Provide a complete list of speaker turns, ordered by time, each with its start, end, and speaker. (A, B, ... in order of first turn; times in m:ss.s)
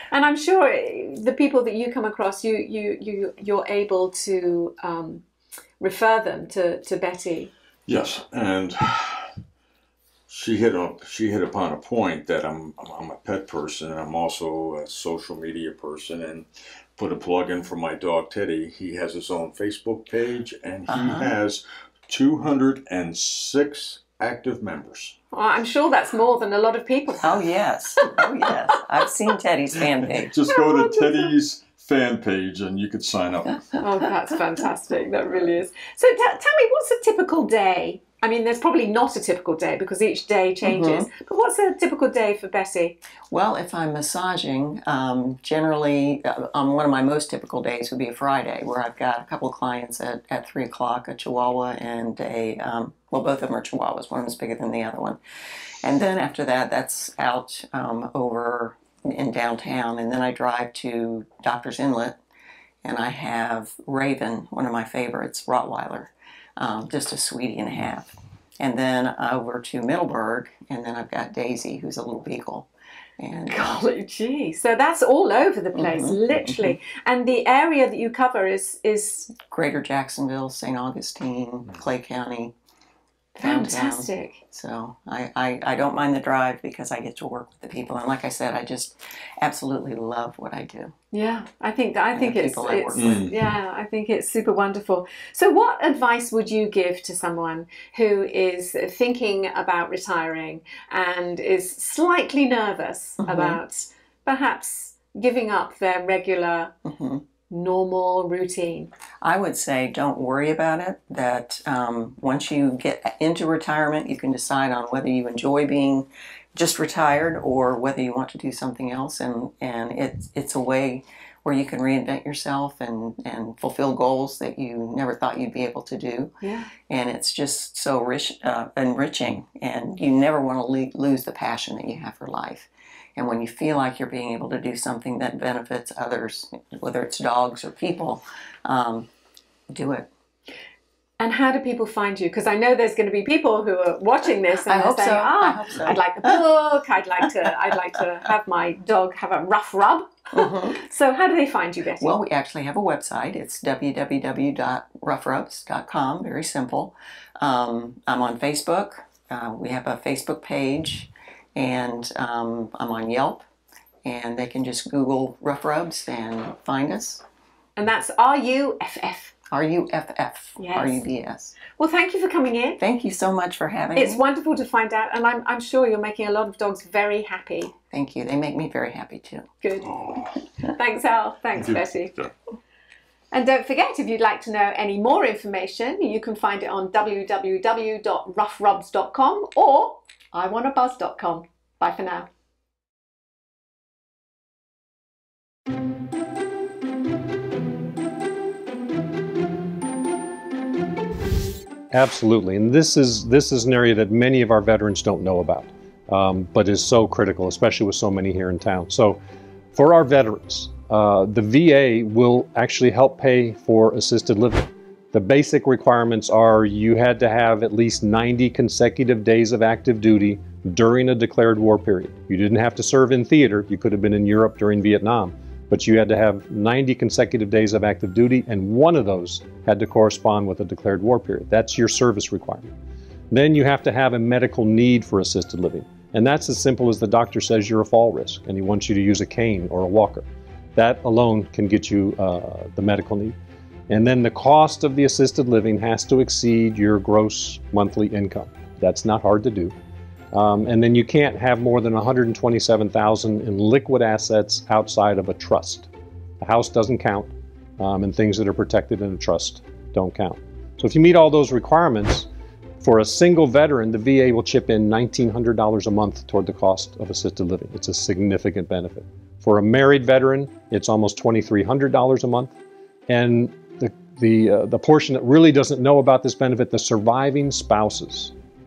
0:00.1-0:05.2 A
0:05.8-0:07.5 A
0:07.9-0:09.3 B
0:10.3-0:25.1 B
0:20.9-0:21.3 C
0:25.3-0:27.4 A
0:27.2-0:30.3 C
0:28.0-0:28.2 A
0:30.0-0:33.8 B
0:30.4-0:31.3 A
0:33.8-0:43.0 A
0:40.6-0:41.1 C
0:43.3-0:55.2 C
0:55.8-1:02.2 C
1:02.8-1:12.7 C
1:13.2-1:13.8 C
1:13.5-1:19.3 A
1:15.7-1:16.7 C
1:19.4-1:22.5 C
1:23.4-1:24.4 A
1:23.4-1:30.9 C
1:31.1-1:46.7 A
1:32.1-1:33.3 C
1:32.9-1:33.5 B
1:43.2-1:43.6 C
1:46.8-1:47.2 C
1:47.5-1:48.9 A
1:49.2-2:06.3 C
2:06.4-2:06.7 A
2:06.8-2:19.1 C
2:19.7-2:20.1 C
2:21.2-2:32.1 A
2:24.6-2:26.4 C
2:30.3-2:30.8 C
2:32.0-2:43.4 C
2:44.0-2:47.2 C
2:47.8-2:49.3 A
2:49.5-2:51.6 C
2:50.6-2:51.0 A
2:51.7-2:52.8 A
2:52.8-2:54.2 C
2:54.0-2:57.7 A
2:57.9-2:59.5 C
2:59.6-3:00.0 A
2:59.8-3:00.4 B
3:00.6-3:02.1 A
3:01.5-3:02.3 B
3:03.3-3:12.3 A
3:21.9-3:29.2 D
3:29.7-3:52.7 D
3:53.3-4:03.4 D
4:03.9-4:09.7 D
4:10.3-4:15.9 D
4:16.4-4:22.3 D
4:22.8-4:32.5 D
4:33.1-4:38.3 D